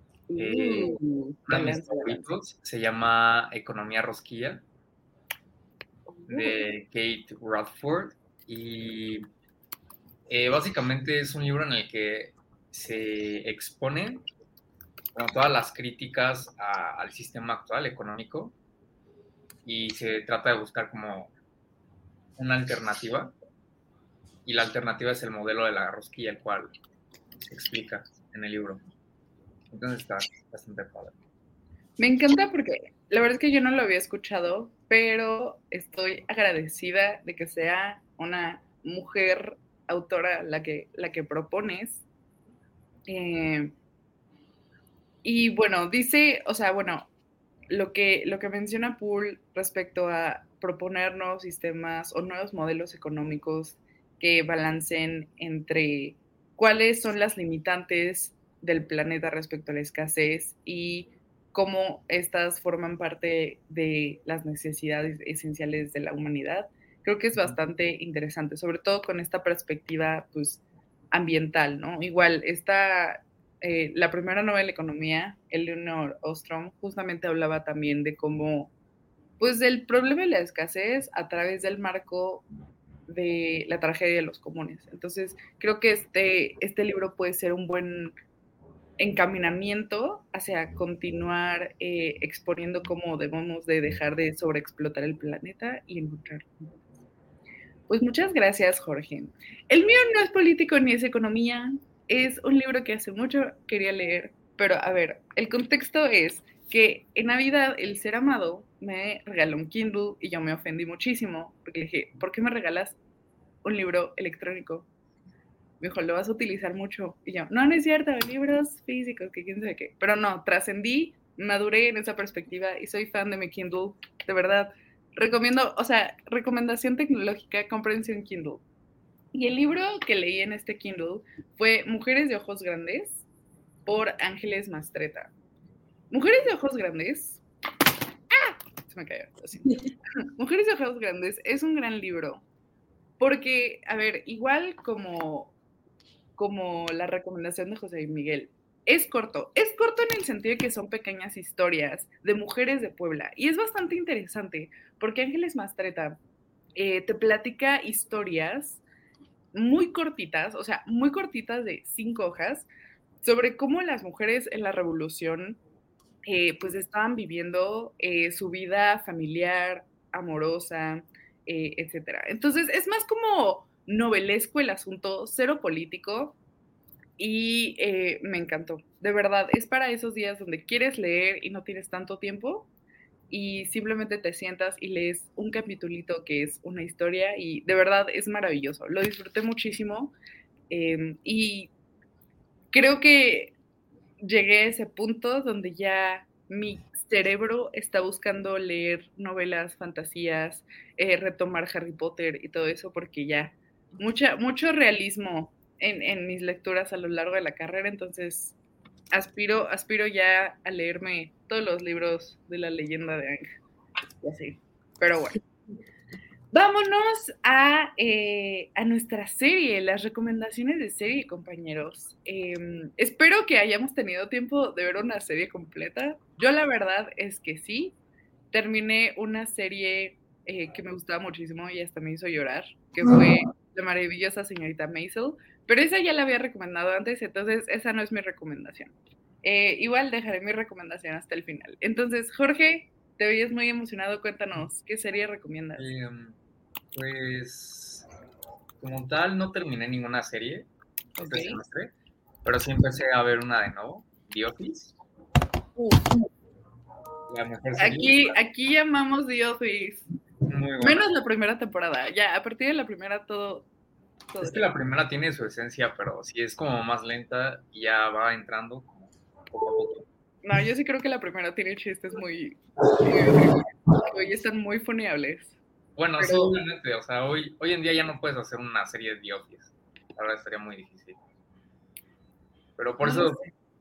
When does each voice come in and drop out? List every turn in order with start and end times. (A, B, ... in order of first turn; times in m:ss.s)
0:00.3-0:02.3 A
0:00.4-0:04.6 B
0:06.1-0:06.6 A
0:06.3-0:09.3 B
0:10.3-0:14.2 B
0:15.1-0:18.5 B
0:19.6-0:21.3 B
0:22.4-0:23.3 B
0:24.4-0:26.7 B
0:27.4-0:28.8 B
0:29.7-0:31.1 B
0:32.0-0:42.0 A
0:43.1-0:43.7 A
0:45.2-0:47.1 A
0:47.7-1:18.7 A
1:19.4-1:22.4 A
1:23.1-1:28.1 A
1:29.0-1:36.7 A
1:37.9-1:53.0 A
1:53.6-1:54.9 A
1:55.8-2:08.6 A
2:09.3-2:13.2 A
2:13.8-2:15.3 A
2:16.1-2:17.4 A
2:18.3-2:22.4 A
2:23.2-2:25.5 A
2:26.4-2:36.2 A
2:36.8-2:38.8 A
2:39.5-2:42.7 A
2:43.2-2:45.6 A
2:46.2-2:56.4 A
2:57.2-3:02.7 A
3:03.3-3:10.1 A
3:10.7-3:11.7 A
3:12.7-3:13.5 A
3:14.2-3:28.5 A
3:29.1-3:33.4 A
3:34.2-3:35.4 A
3:36.5-3:47.9 A
3:48.5-4:05.8 A
4:05.8-4:06.3 B
4:06.9-4:08.0 B
4:08.8-4:11.9 B
4:11.2-4:11.6 A
4:12.4-4:14.9 B
4:17.3-4:18.4 B
4:17.8-4:20.0 A
4:20.5-4:21.1 B
4:20.8-4:23.7 A
4:24.3-4:24.7 A
4:24.4-4:30.0 B
4:30.4-4:35.6 A
4:36.0-4:41.2 B
4:36.2-4:36.6 A
4:42.8-4:43.4 B
4:43.0-4:43.5 A